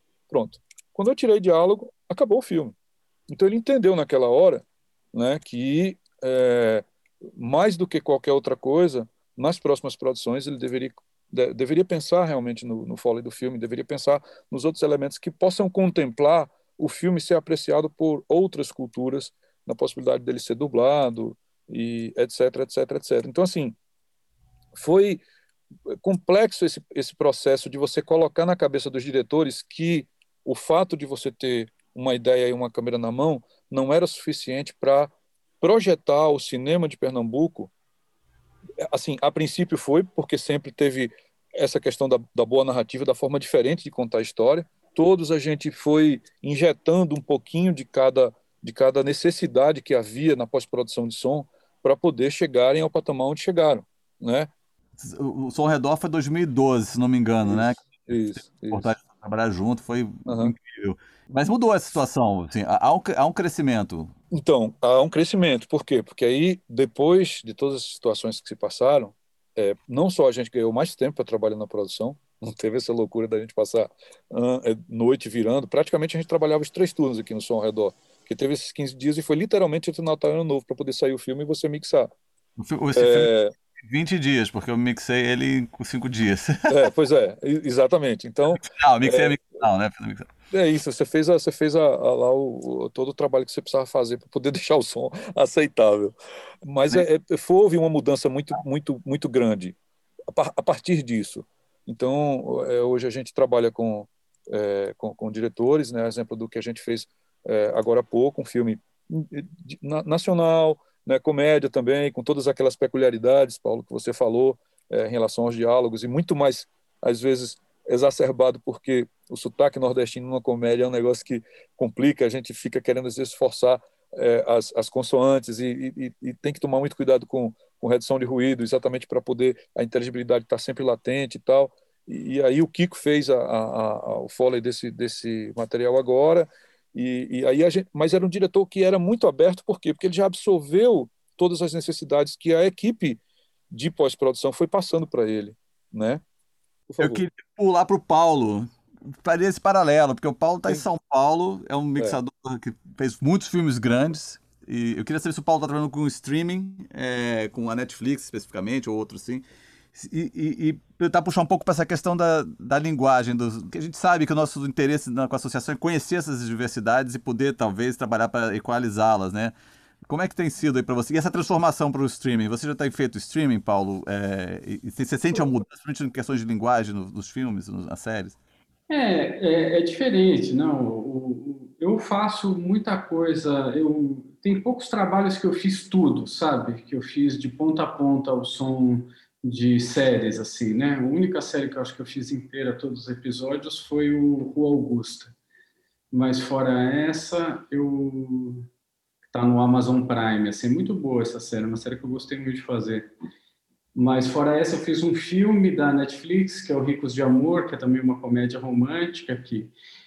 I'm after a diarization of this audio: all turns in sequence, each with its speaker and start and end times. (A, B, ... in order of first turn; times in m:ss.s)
0:00.3-0:02.7 A
0:03.3-0:23.8 A
0:24.7-0:25.2 A
0:25.9-0:37.7 A
0:38.8-0:54.5 A
0:55.0-1:04.1 B
0:57.4-0:58.9 A
1:00.3-1:00.6 A
1:04.3-1:22.1 A
1:22.6-1:26.8 B
1:22.9-1:23.5 A
1:26.7-1:29.4 A
1:28.6-1:30.3 B
1:30.5-1:39.8 A
1:40.3-2:26.2 A
2:26.9-2:27.2 A
2:27.0-2:28.7 B
2:29.2-2:39.4 B
2:40.0-2:58.4 B
2:58.9-3:15.3 C
3:16.1-3:18.7 C
3:19.3-3:23.1 C
3:24.0-3:29.7 C